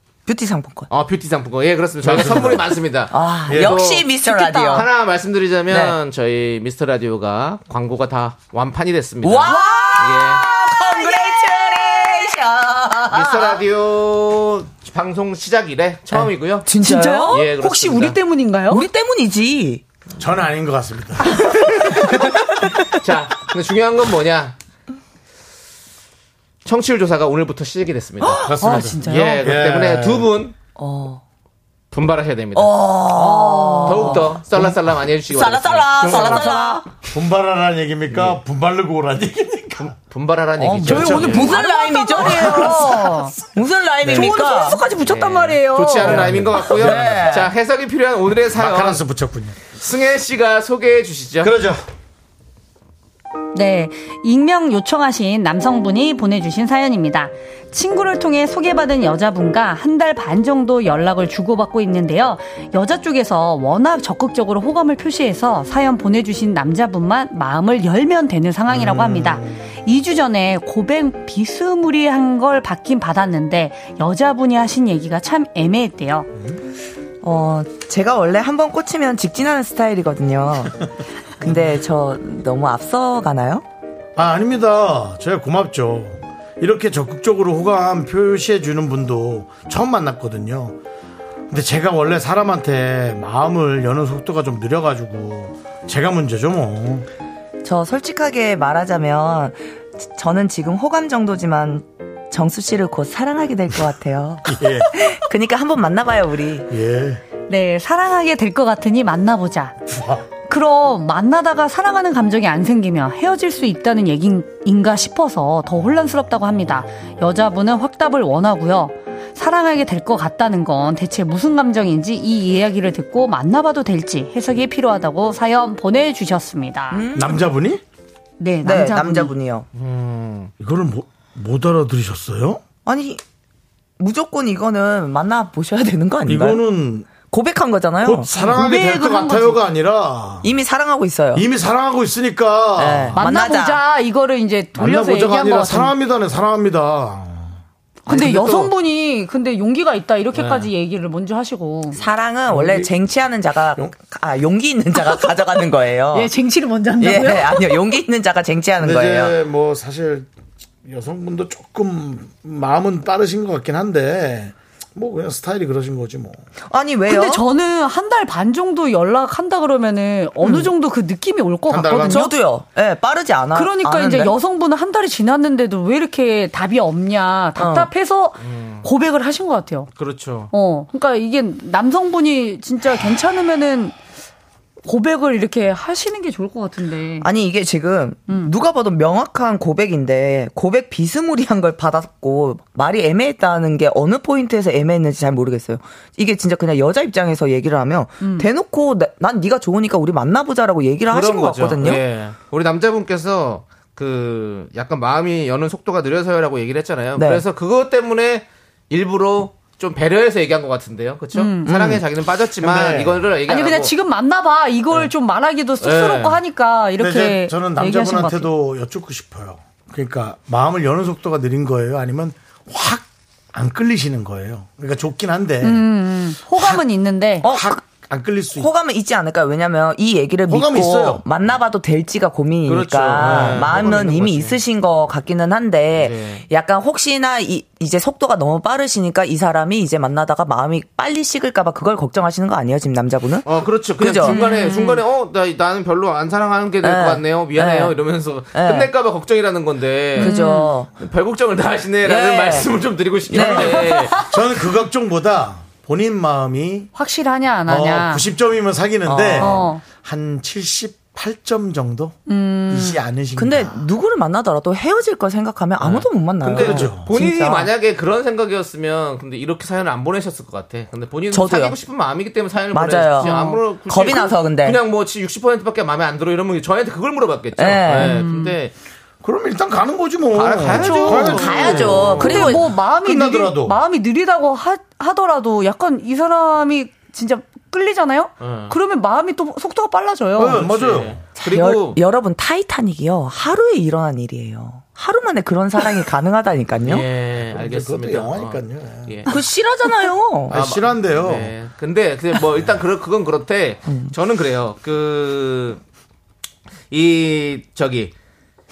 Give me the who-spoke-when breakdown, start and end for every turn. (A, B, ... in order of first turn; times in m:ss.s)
0:00.2-0:00.9 A
0:00.9-0:04.1 B
0:02.0-0:02.7 C
0:03.1-0:04.9 A
0:03.5-0:03.9 C
0:04.1-0:04.8 D
0:04.7-0:10.5 B
0:05.7-0:06.0 A
0:09.2-0:13.6 A
0:09.4-0:11.6 D
0:13.1-0:16.7 B
0:16.1-0:17.5 A
0:16.6-0:18.9 D
0:17.3-0:18.2 B
0:18.7-0:19.8 A
0:20.2-0:21.6 C
0:21.4-0:22.3 B
0:22.9-0:24.6 B
0:26.6-0:30.6 B
0:28.2-0:29.5 D
0:28.4-0:30.3 C
0:30.8-0:31.2 A
0:31.9-0:32.8 B
0:32.5-0:34.3 A
0:33.1-0:34.4 D
0:33.8-0:36.5 B
0:35.3-0:36.8 A
0:36.0-0:36.5 C
0:36.1-0:36.8 D
0:37.1-0:39.9 C
0:38.1-0:38.4 B
0:39.8-0:41.5 B
0:40.6-0:44.9 A
0:40.8-0:41.6 C
0:40.9-0:43.4 D
0:42.2-0:43.3 C
0:44.0-0:44.3 C
0:44.1-0:46.7 D
0:45.0-0:49.0 B
0:46.0-0:47.3 C
0:46.6-0:47.5 A
0:48.5-0:49.6 C
0:49.7-0:51.5 B
0:51.4-0:51.8 C
0:53.5-1:16.3 D
1:08.7-1:09.6 C
1:17.2-1:20.8 A
1:21.4-1:23.6 A
1:21.4-1:21.7 C
1:24.2-1:30.8 C
1:31.5-1:37.1 C
1:37.6-1:46.7 A
1:44.4-1:44.9 C
1:46.7-1:47.2 C
1:47.5-1:49.7 D
1:49.9-1:50.2 C
1:50.5-2:07.0 D
2:06.9-2:07.4 A
2:07.1-2:07.8 C
2:08.4-2:09.3 D
2:08.6-2:09.7 A
2:09.7-2:10.5 B
2:10.6-2:12.6 C
2:12.8-2:13.2 A
2:14.0-2:18.3 A
2:16.2-2:17.1 C
2:18.0-2:20.5 C
2:18.3-2:19.6 D
2:20.4-2:21.5 A
2:21.3-2:23.2 C
2:22.8-2:23.8 A
2:23.2-2:25.9 D
2:24.8-2:27.6 C
2:28.0-2:32.0 D
2:28.1-2:28.7 B
2:30.4-2:30.6 C
2:31.9-2:36.3 A
2:32.5-2:32.9 C
2:36.1-2:37.8 D
2:37.0-2:39.4 A
2:38.8-2:40.3 C
2:40.8-2:46.4 C
2:46.7-2:47.4 A
2:47.1-2:52.4 D
2:50.4-2:50.7 A
2:51.7-2:52.3 C
2:52.0-2:54.3 A
2:53.5-2:59.9 D
2:57.6-2:57.9 A
2:58.4-2:58.9 B
3:00.0-3:00.5 B
3:00.5-3:04.0 D
3:04.8-3:07.3 D
3:07.2-3:22.0 A
3:08.3-3:08.5 D
3:18.2-3:18.5 D
3:21.1-3:33.9 B
3:27.2-3:27.4 A
3:31.3-3:31.9 D
3:31.7-3:32.0 A
3:32.6-3:33.3 C
3:33.4-3:38.5 D
3:35.8-3:36.4 B
3:37.0-3:45.8 C
3:45.6-3:47.4 D
3:46.5-3:46.8 C
3:47.4-3:47.8 A
3:47.4-3:48.7 C
3:48.5-4:03.5 A
3:50.5-3:51.2 C
3:52.7-3:54.6 B
3:53.1-3:54.0 C
3:56.0-3:56.4 B
4:03.4-4:10.3 B
4:04.0-4:05.0 A
4:04.3-4:04.8 D
4:06.8-4:08.0 A
4:08.5-4:08.9 A
4:10.1-4:10.8 D
4:10.2-4:10.9 A
4:11.0-4:14.2 B
4:12.0-4:12.7 A
4:13.3-4:13.9 A
4:13.4-4:14.4 D
4:14.2-4:16.9 C
4:16.9-4:18.2 D
4:17.7-4:23.8 C
4:19.0-4:19.7 A
4:19.4-4:19.8 D
4:22.3-4:23.0 D
4:23.4-4:27.7 A
4:25.8-4:38.7 B
4:26.5-4:27.1 C
4:31.3-4:31.8 A
4:32.7-4:34.8 A
4:33.2-4:33.6 D
4:37.6-4:38.2 A
4:37.9-4:38.5 D
4:39.2-4:43.8 C
4:40.3-4:42.6 B
4:40.7-4:41.5 D
4:41.3-4:42.7 A
4:42.2-4:50.6 D
4:48.4-4:48.8 B
4:50.4-4:51.2 C
4:50.6-4:52.0 B
4:51.4-4:57.0 A
4:56.8-4:59.3 B
4:57.4-4:59.4 C
4:59.3-5:00.6 A
5:00.5-5:01.5 C
5:00.5-5:05.8 B
5:03.9-5:04.1 A
5:06.9-5:08.1 B